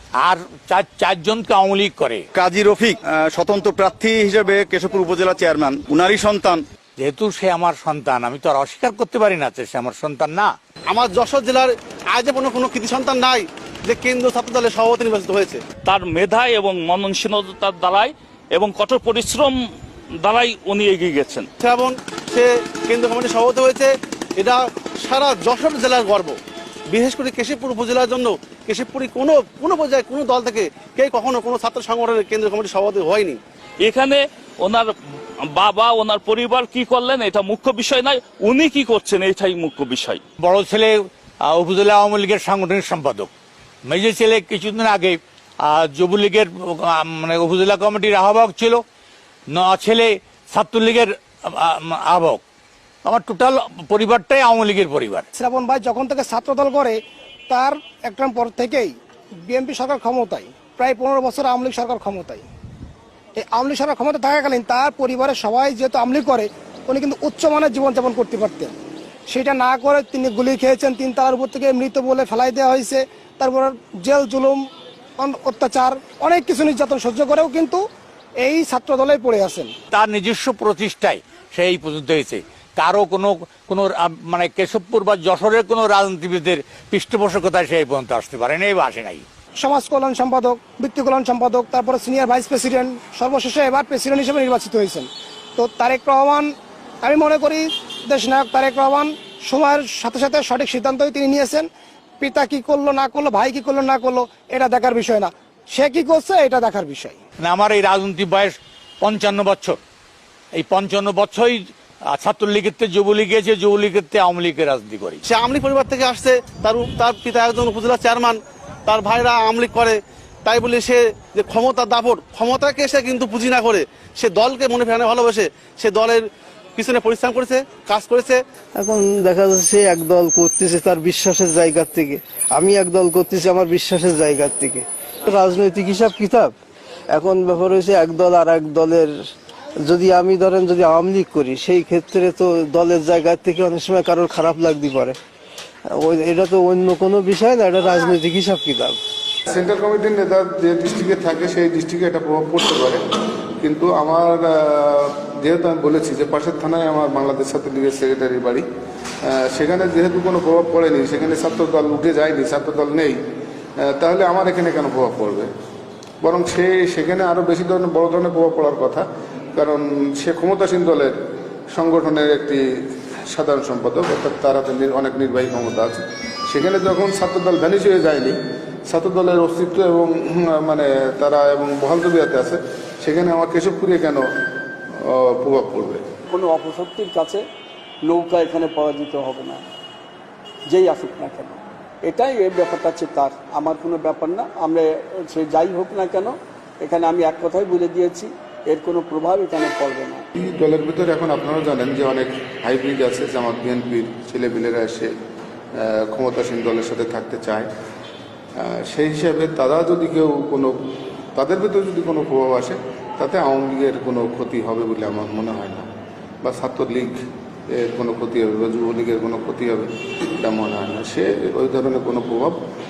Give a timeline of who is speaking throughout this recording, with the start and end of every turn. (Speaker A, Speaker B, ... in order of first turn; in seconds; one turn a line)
Speaker A: 0.2-2.2
Speaker B: 2.4-6.6
Speaker A: 7.0-10.5
Speaker C: 10.9-15.6
Speaker D: 15.8-19.6
Speaker D: 20.2-21.5
Speaker C: 21.6-26.4
Speaker C: 26.9-33.4
Speaker D: 33.8-34.9
Speaker D: 35.5-40.2
Speaker A: 40.4-43.3
Speaker A: 43.9-48.8
Speaker A: 49.5-52.4
Speaker A: 53.0-55.2
Speaker E: 55.3-58.9
Speaker E: 59.5-62.5
Speaker E: 63.4-68.8
Speaker E: 69.3-74.6
Speaker E: 75.2-77.8
Speaker E: 78.4-79.7
Speaker A: 79.9-89.2
Speaker E: 89.6-101.7
Speaker E: 102.2-107.2
Speaker A: 107.4-109.8
Speaker A: 110.5-115.2
Speaker C: 115.2-128.4
Speaker F: 128.8-136.6
Speaker F: 137.1-139.2
Speaker F: 139.8-145.2
Speaker F: 145.9-149.0
Speaker G: 149.5-153.0
Speaker G: 153.6-158.6
Speaker G: 159.2-163.2
Speaker G: 163.8-165.5
Speaker G: 166.2-171.2
Speaker G: 171.7-172.6
Speaker G: 173.3-178.4
Speaker G: 178.9-184.2
Speaker G: 185.1-186.0
Speaker H: 186.3-187.4
Speaker H: 188.0-189.6
Speaker H: 190.7-200.2
Speaker G: 200.4-205.1
Speaker G: 205.8-207.7
Speaker G: 208.6-210.7
Speaker G: 211.4-215.9
Speaker G: 216.4-222.6